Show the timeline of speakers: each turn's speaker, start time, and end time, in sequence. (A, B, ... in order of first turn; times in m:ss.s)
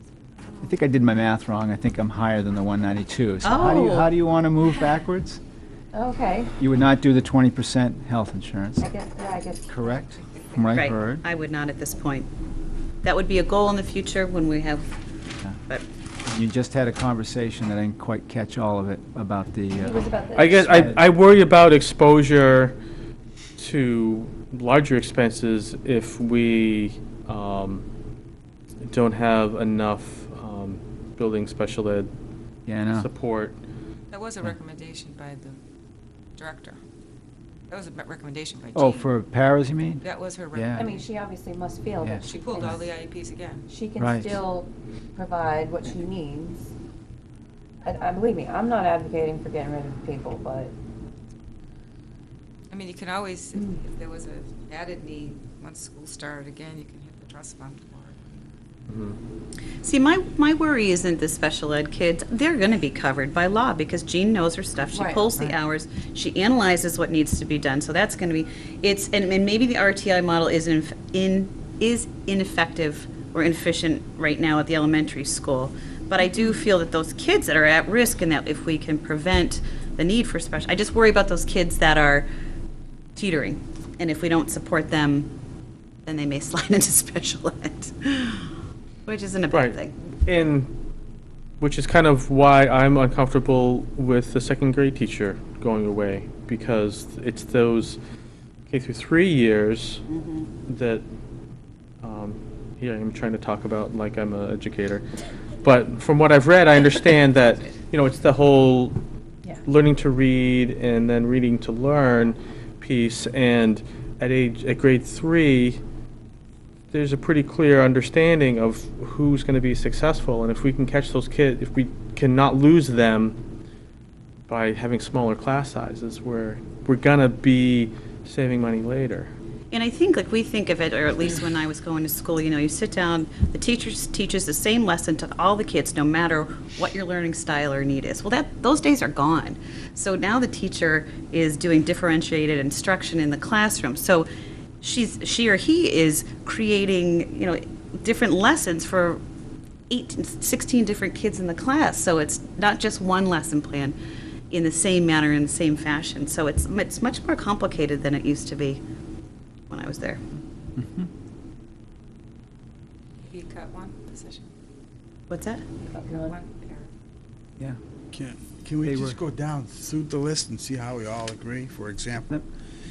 0:00.6-0:05.4 A
0:03.4-0:04.1 B
0:05.9-0:06.6 C
0:06.6-0:08.9 A
0:08.8-0:10.1 C
0:09.7-0:11.2 A
0:10.7-0:12.3 B
0:13.0-0:14.9 B
0:16.3-0:20.1 A
0:19.8-0:20.8 C
0:20.4-0:22.8 D
0:20.6-0:21.0 A
0:23.6-0:27.8 D
0:28.8-0:32.1 D
0:32.7-0:33.1 A
0:32.9-0:33.6 D
0:34.1-0:35.6 E
0:36.4-0:36.8 E
0:37.7-0:39.1 E
0:38.7-0:40.9 A
0:40.0-0:41.1 E
0:40.8-0:42.9 C
0:42.0-0:42.8 A
0:42.2-0:43.7 E
0:43.7-0:46.7 C
0:44.0-0:44.4 A
0:47.8-0:50.7 C
0:52.7-0:58.2 E
0:58.9-0:59.2 D
0:59.8-1:22.3 B
1:04.9-1:05.3 C
1:23.2-1:25.3 B
1:26.0-1:28.5 B
1:29.1-1:29.9 B
1:29.5-1:30.7 D
1:31.6-1:38.0 D
1:38.7-1:40.1 D
1:40.1-1:40.5 B
1:40.7-1:41.0 D
1:42.0-1:45.1 D
1:45.6-1:49.0 D
1:49.7-1:55.8 D
1:56.9-2:03.4 D
2:04.5-2:09.3 D
2:09.7-2:24.3 B
2:24.8-2:29.2 B
2:29.9-2:34.0 B
2:34.5-2:38.8 B
2:39.7-2:40.2 B
2:40.8-2:41.1 A
2:43.3-2:44.5 E
2:45.3-2:45.7 B
2:45.8-2:46.4 C
2:45.9-2:46.9 E
2:48.1-2:52.3 F
2:48.8-2:49.2 A